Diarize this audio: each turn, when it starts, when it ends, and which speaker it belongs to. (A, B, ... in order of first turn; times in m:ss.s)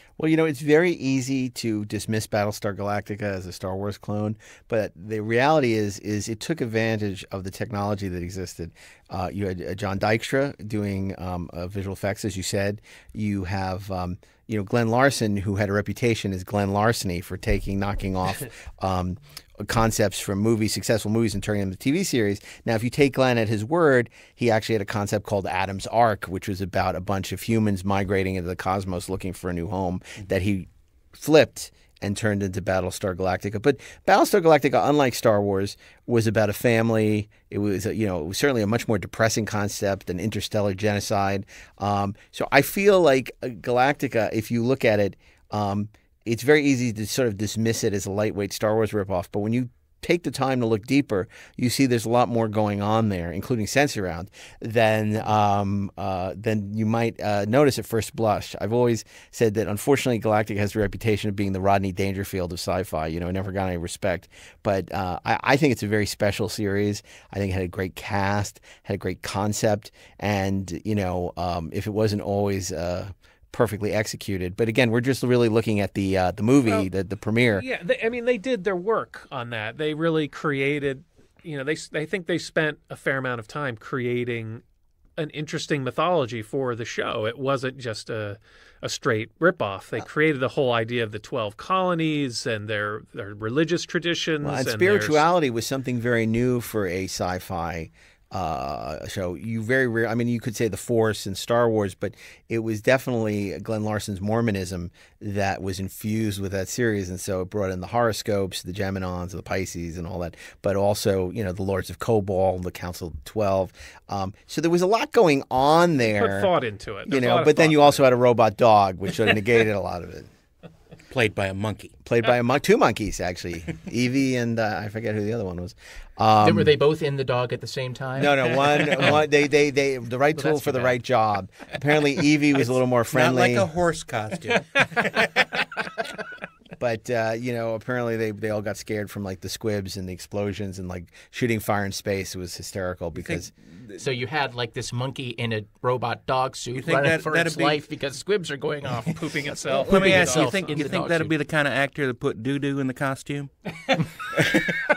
0:00.2-1:17.6 A
1:17.6-1:24.6 B
1:25.2-1:35.2 B
1:34.4-1:56.5 A
1:56.1-1:58.1 B
1:57.1-2:00.3 A
2:01.1-2:01.9 C
2:02.0-2:06.8 A
2:06.4-2:09.2 D
2:08.2-2:13.7 A
2:10.4-2:11.0 D
2:12.6-2:15.6 C
2:16.8-2:23.5 A
2:23.2-2:24.0 C
2:24.0-2:31.3 D
2:26.8-2:27.8 C
2:29.1-2:31.0 B
2:29.8-2:33.5 C